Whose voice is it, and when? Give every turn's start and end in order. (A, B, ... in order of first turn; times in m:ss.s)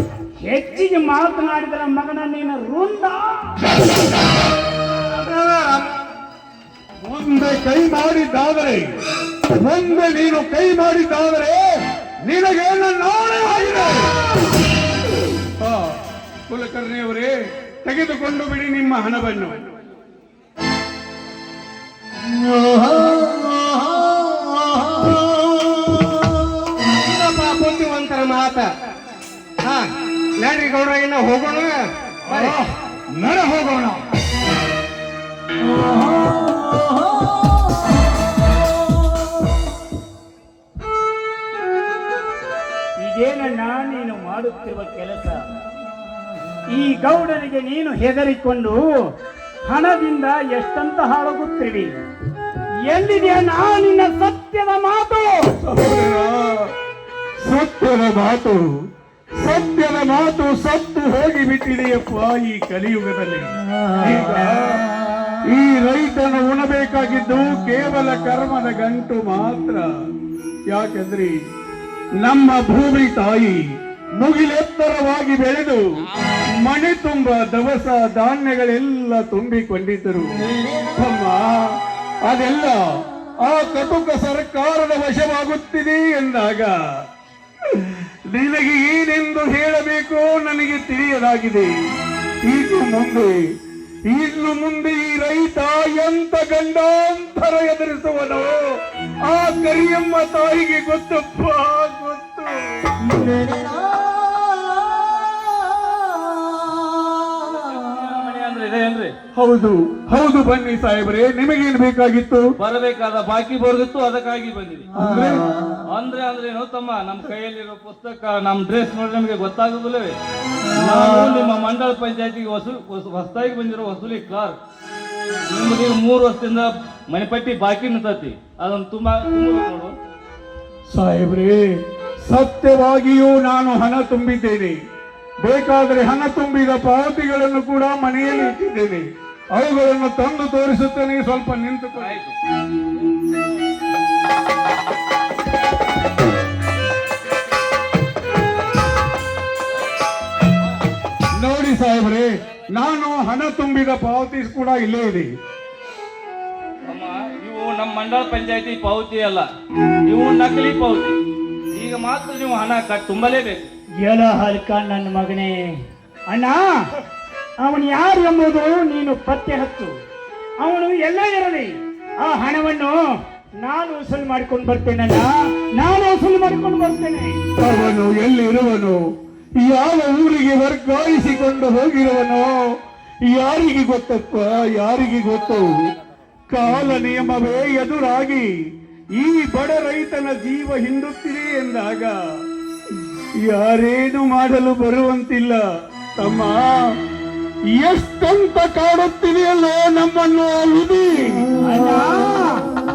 0:00.4-0:03.6 A
0:05.1-0:05.9 B
0:07.0-0:08.9 C
0:09.5-0:11.6 C
0:12.2-0:14.1 C
0:15.6-0:15.9 C
0:16.5-0:17.3 C
0:17.8-0:19.7 C
0:26.9-0:28.7 B
0:29.6-0:32.6 B
0:32.3-0:34.0 C
0:43.0-0:45.4 A
0:46.7-0:48.8 A
0:49.7-0:51.9 A
0:52.9-0:55.5 A
0:55.6-0:56.7 C
0:57.4-0:58.7 C
0:59.4-1:04.8 C
1:05.5-1:09.9 C
1:10.7-1:11.3 C
1:12.2-1:13.6 C
1:14.2-1:15.8 C
1:16.6-1:21.7 C
1:22.2-1:22.8 C
1:23.4-1:26.7 C
1:27.7-1:31.7 C
1:32.4-1:33.4 C
1:34.1-1:38.6 C
1:39.2-1:42.5 C
1:43.4-1:43.7 D
1:47.2-1:49.1 D
1:49.4-1:52.4 C
1:52.6-1:55.4 D
1:55.0-1:55.4 C
1:55.9-2:00.2 D
2:00.7-2:04.6 D
2:05.5-2:09.9 D
2:10.9-2:14.8 C
2:15.4-2:22.2 C
2:22.0-2:22.4 D
2:31.3-2:35.3 C
2:36.9-2:39.5 D
2:40.0-2:41.2 D
2:41.7-2:43.7 D
2:44.0-2:45.7 A
2:46.3-2:46.6 A
2:47.6-2:49.9 A
2:50.6-2:57.3 A
2:57.6-2:59.0 C
2:59.6-3:02.6 C
3:03.3-3:05.7 C
3:06.5-3:08.5 C
3:09.2-3:12.1 C
3:13.4-3:15.6 C
3:16.2-3:16.8 C
3:17.7-3:21.4 C
3:21.6-3:22.6 A